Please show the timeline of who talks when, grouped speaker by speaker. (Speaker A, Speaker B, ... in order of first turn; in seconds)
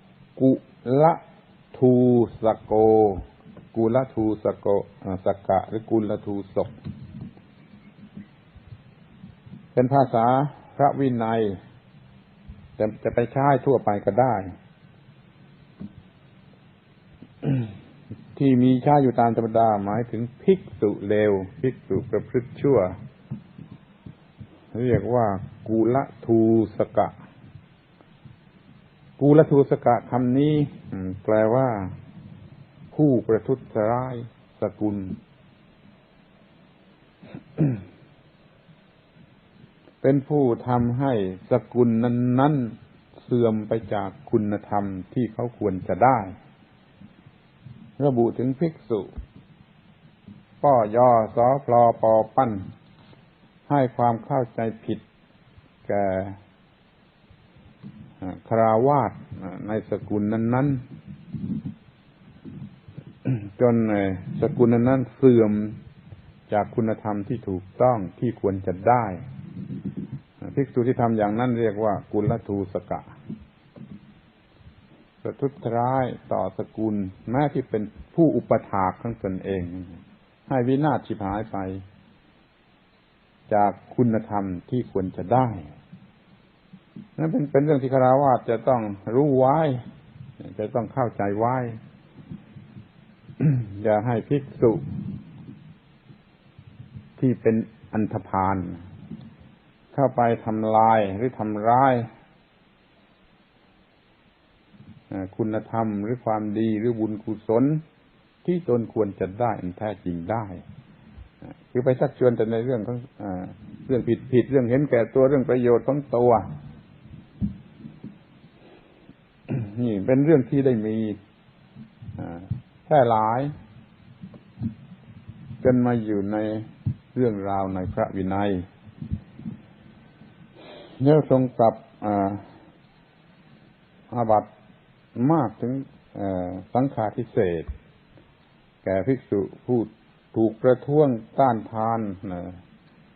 Speaker A: 0.3-1.2, 1.7-6.7, 9.7-11.6, 12.8-14.4, 18.3-22.9, 24.7-27.1, 29.2-31.9, 32.9-35.2, 40.0-46.3, 48.0-49.1, 50.6-52.6, 53.7-55.0, 55.9-56.4, 58.2-60.8, 63.2-65.8, 66.5-69.2, 70.4-73.0, 75.2-79.9, 80.5-81.8, 83.5-85.7, 87.2-89.8, 90.4-91.8, 93.4-94.8, 97.2-98.8, 99.9-102.0, 105.1-107.8, 108.4-110.6, 111.7-116.5, 119.5-121.2, 122.2-123.5, 125.6-128.7, 131.0-132.4, 134.1-134.5, 135.1-137.7, 138.8-142.6